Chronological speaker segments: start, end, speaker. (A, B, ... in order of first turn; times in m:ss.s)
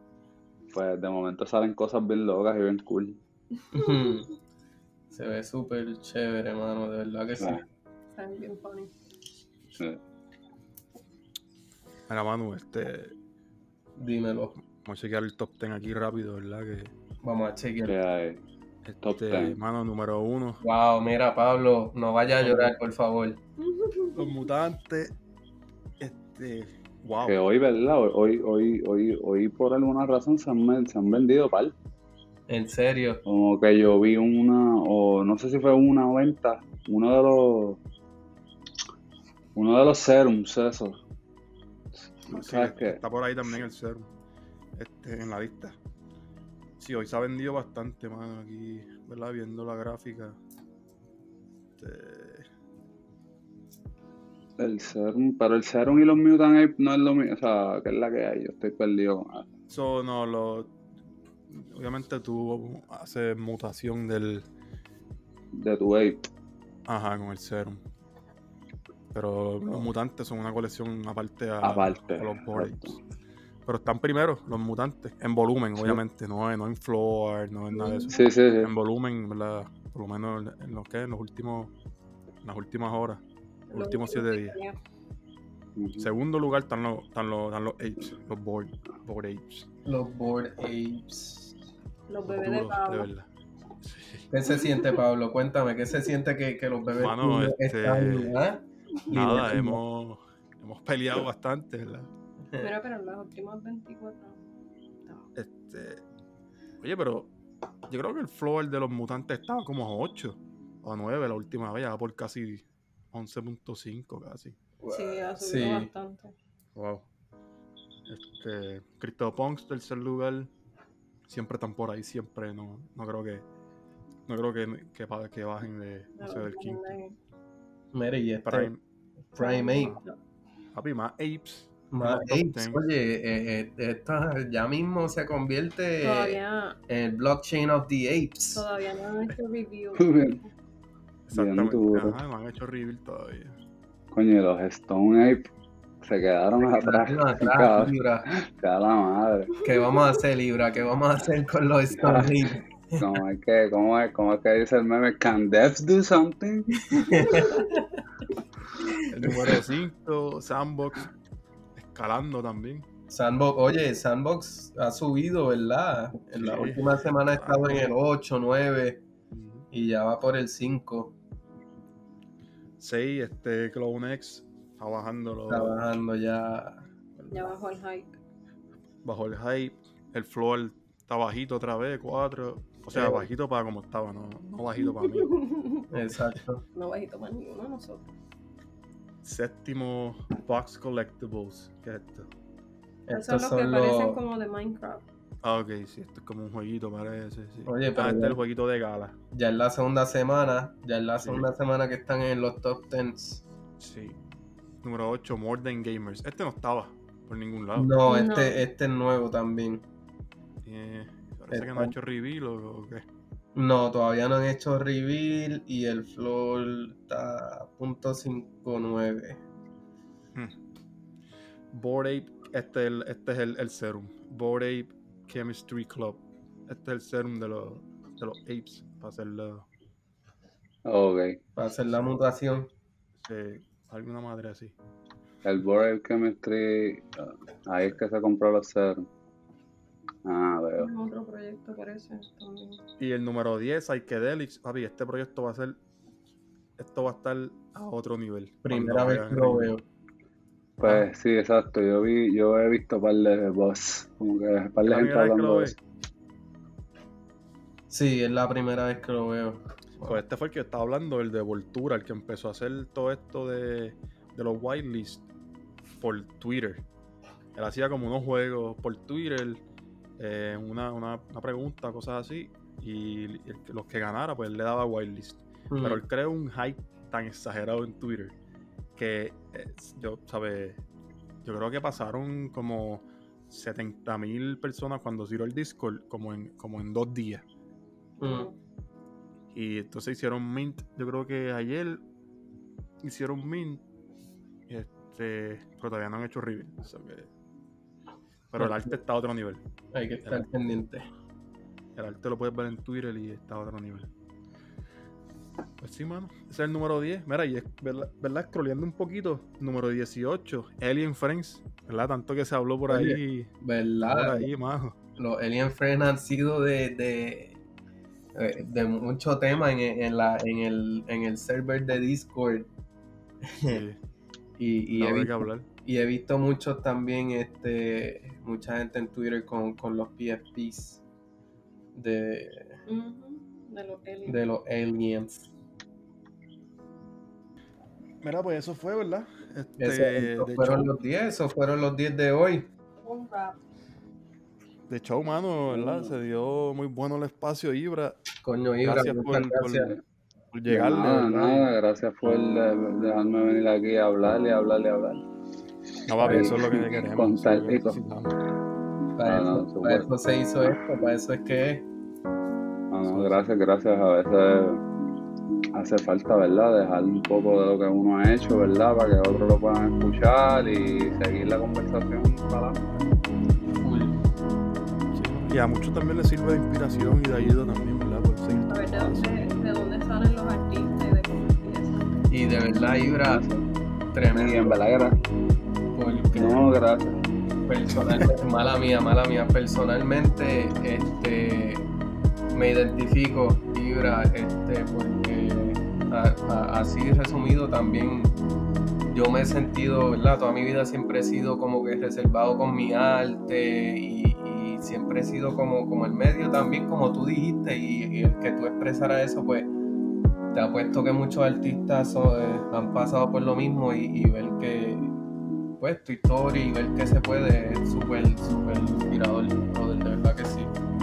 0:00.7-0:03.2 A
0:03.7-0:04.3 B
0:03.7-0:04.1 C
0:05.1-0:07.6 B
0:08.1-0:08.9 C
0:12.1-0:13.2 D
0:14.0-0:14.6 B
0:14.6-0:16.9 D
0:17.2-0:18.0 B
0:17.8-0:18.4 A
0:18.9-0:20.6 D
0:19.0-0:19.6 A
0:20.6-0:23.4 B
0:22.4-0:22.7 D
0:23.6-0:24.3 C
0:24.1-0:25.2 D
0:26.0-0:27.4 D
0:27.2-0:31.7 A
0:32.5-0:33.2 B
0:33.2-0:37.8 A
0:39.6-0:41.0 A
0:42.2-0:43.6 A
0:42.3-0:44.1 D
0:44.8-0:45.8 D
0:46.8-0:50.4 D
0:51.8-0:52.5 D
0:54.6-0:59.4 A
0:59.7-1:00.7 D
1:01.5-1:04.5 D
1:05.5-1:06.3 A
1:06.9-1:07.8 D
1:09.1-1:13.0 D
1:11.6-1:13.0 A
1:13.6-1:21.7 D
1:17.7-1:18.3 C
1:18.1-1:18.7 A
1:22.4-1:24.6 D
1:23.7-1:24.8 C
1:25.8-1:26.1 A
1:26.0-1:29.7 D
1:29.8-1:31.5 B
1:32.1-1:33.1 C
1:32.2-1:33.3 D
1:33.8-1:34.2 D
1:34.3-1:39.8 B
1:36.9-1:38.4 D
1:39.1-1:42.1 D
1:42.6-1:44.4 C
1:45.3-1:46.0 D
1:46.8-1:47.3 D
1:47.9-1:54.6 D
1:54.8-1:55.9 B
1:54.8-1:56.3 C
1:56.7-1:57.1 D
1:58.1-2:00.5 D
2:01.3-2:03.4 D
2:04.3-2:07.0 D
2:06.2-2:07.2 C
2:07.9-2:08.7 B
2:08.4-2:08.8 D
2:09.3-2:10.0 B
2:09.4-2:10.2 C
2:10.7-2:12.8 D
2:11.9-2:18.6 B
2:16.0-2:16.8 C
2:18.6-2:20.5 C
2:20.0-2:20.4 A
2:21.3-2:23.6 D
2:21.3-2:22.2 A
2:24.1-2:25.5 A
2:26.0-2:29.5 A
2:26.6-2:28.2 B
2:29.6-2:33.1 B
2:32.0-2:32.4 A
2:33.0-2:37.0 A
2:36.9-2:37.9 B
2:38.9-2:39.6 B
2:39.1-2:41.1 D
2:41.8-2:42.8 D
2:43.1-2:49.0 B
2:46.3-2:47.9 D
2:49.3-2:49.7 D
2:49.7-2:51.2 B
2:52.8-2:55.8 D
2:55.5-2:56.9 B
2:57.2-2:57.5 D
2:57.3-2:58.2 C
2:59.0-3:05.3 D
3:02.9-3:03.2 B
3:04.8-3:05.9 C
3:05.9-3:06.6 B
3:06.7-3:08.1 C
3:09.2-3:12.3 D
3:13.1-3:14.2 B
3:13.1-3:15.0 C
3:15.4-3:19.1 D
3:17.6-3:18.4 B
3:19.3-3:23.4 B
3:21.2-3:21.5 D
3:23.8-3:24.2 D
3:24.8-3:27.9 D
3:27.7-3:29.8 B
3:28.0-3:28.6 C
3:30.6-3:33.0 D
3:31.5-3:31.9 B
3:33.5-3:39.4 B
3:40.3-3:40.6 D
3:41.7-3:49.6 D
3:50.8-3:51.4 A
3:51.6-3:52.7 B
3:53.2-3:54.7 D
3:55.4-3:59.1 A
4:00.2-4:00.9 A
4:00.8-4:02.8 C
4:03.0-4:05.8 D
4:06.8-4:09.7 D
4:08.6-4:09.8 B
4:10.8-4:15.8 A
4:14.8-4:15.8 D
4:17.9-4:20.2 B
4:20.0-4:25.2 D
4:26.0-4:26.8 D
4:27.5-4:29.6 D
4:30.2-4:38.4 D
4:35.7-4:36.0 B
4:39.0-4:40.8 D
4:41.4-4:47.4 D
4:48.2-4:48.5 B
4:48.2-4:48.5 C
4:49.5-4:52.0 D
4:53.0-4:53.8 D
4:54.7-4:57.3 D
4:58.5-4:59.6 D
4:58.6-4:58.9 B
4:59.9-5:01.0 B
5:02.0-5:04.1 D
5:05.8-5:13.5 D
5:12.9-5:14.5 B
5:14.0-5:15.0 D
5:15.2-5:17.6 B
5:18.3-5:22.7 B
5:23.4-5:23.8 B
5:23.7-5:24.0 D
5:24.6-5:31.0 B
5:25.0-5:25.6 D
5:31.9-5:32.8 B
5:32.9-5:34.4 C
5:34.2-5:35.5 B
5:38.2-5:40.9 D
5:39.8-5:42.7 B
5:43.0-5:43.6 C
5:44.9-5:48.2 D
5:48.4-5:50.0 B
5:48.8-5:50.0 D
5:50.5-5:51.7 D
5:50.7-5:55.2 A
5:56.0-5:58.4 D
5:56.2-5:56.6 B
5:56.2-5:58.0 A
5:59.2-6:01.9 B
5:59.2-6:00.1 A
6:02.9-6:04.8 A
6:03.1-6:03.5 D
6:05.7-6:12.8 A
6:13.7-6:14.1 B
6:15.1-6:19.5 D
6:18.7-6:22.1 C
6:22.3-6:23.4 B
6:23.3-6:23.7 A
6:24.1-6:24.8 B
6:24.3-6:25.2 A
6:25.9-6:26.7 B
6:26.3-6:27.2 A
6:27.7-6:31.9 B
6:32.5-6:38.4 B
6:39.1-6:49.7 B
6:50.5-6:55.2 B
6:55.8-7:00.7 B